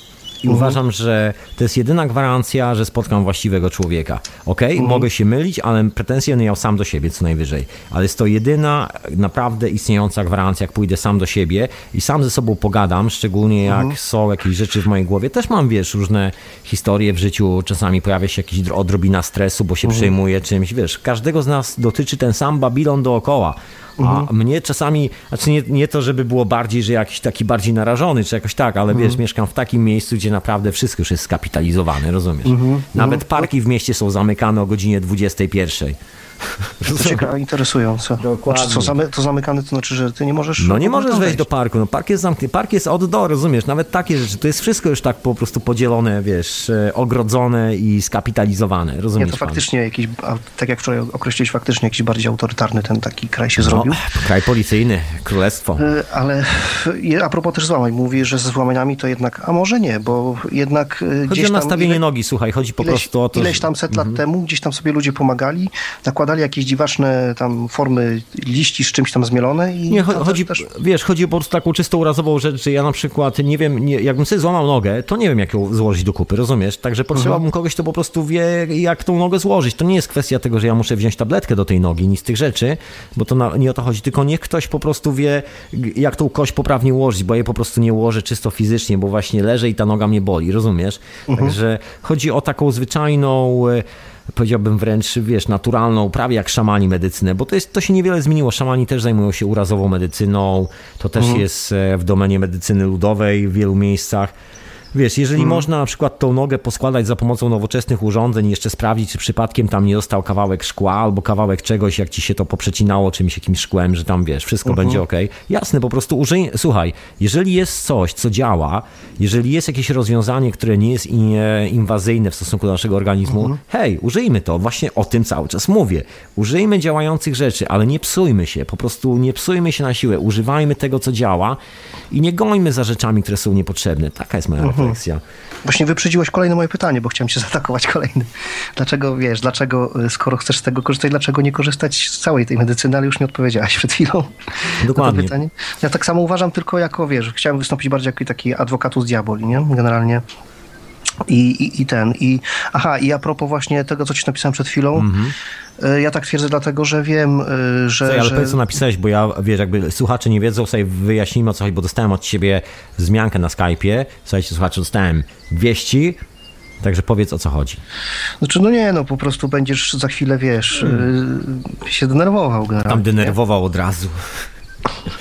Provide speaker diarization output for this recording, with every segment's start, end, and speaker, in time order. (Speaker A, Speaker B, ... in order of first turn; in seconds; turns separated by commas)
Speaker A: 0.4-36.0, Speaker B: 0.5-0.8, Speaker B: 4.8-5.1, Speaker B: 13.7-13.9, Speaker B: 24.0-24.3, Speaker B: 28.9-29.2, Speaker B: 32.4-33.5, Speaker A: 36.6-37.3, Speaker B: 36.9-41.4, Speaker A: 38.2-38.9, Speaker A: 40.6-49.6, Speaker B: 49.2-54.0, Speaker A: 53.6-55.9, Speaker B: 55.8-62.0, Speaker A: 61.3-64.2, Speaker B: 62.8-70.6, Speaker A: 69.9-104.3, Speaker B: 77.1-77.4, Speaker B: 91.3-91.6, Speaker B: 101.2-101.4, Speaker A: 104.9-131.6, Speaker B: 105.4-105.6, Speaker B: 114.7-115.0, Speaker A: 132.1-135.2, Speaker B: 134.6-135.0, Speaker B: 135.6-150.2, Speaker A: 144.8-145.3, Speaker B: 151.2-155.1, Speaker A: 154.9-155.3, Speaker B: 155.8-158.6, Speaker A: 158.0-166.2, Speaker A: 166.8-167.8, Speaker B: 168.4-173.3, Speaker A: 170.8-171.1, Speaker A: 172.9-174.2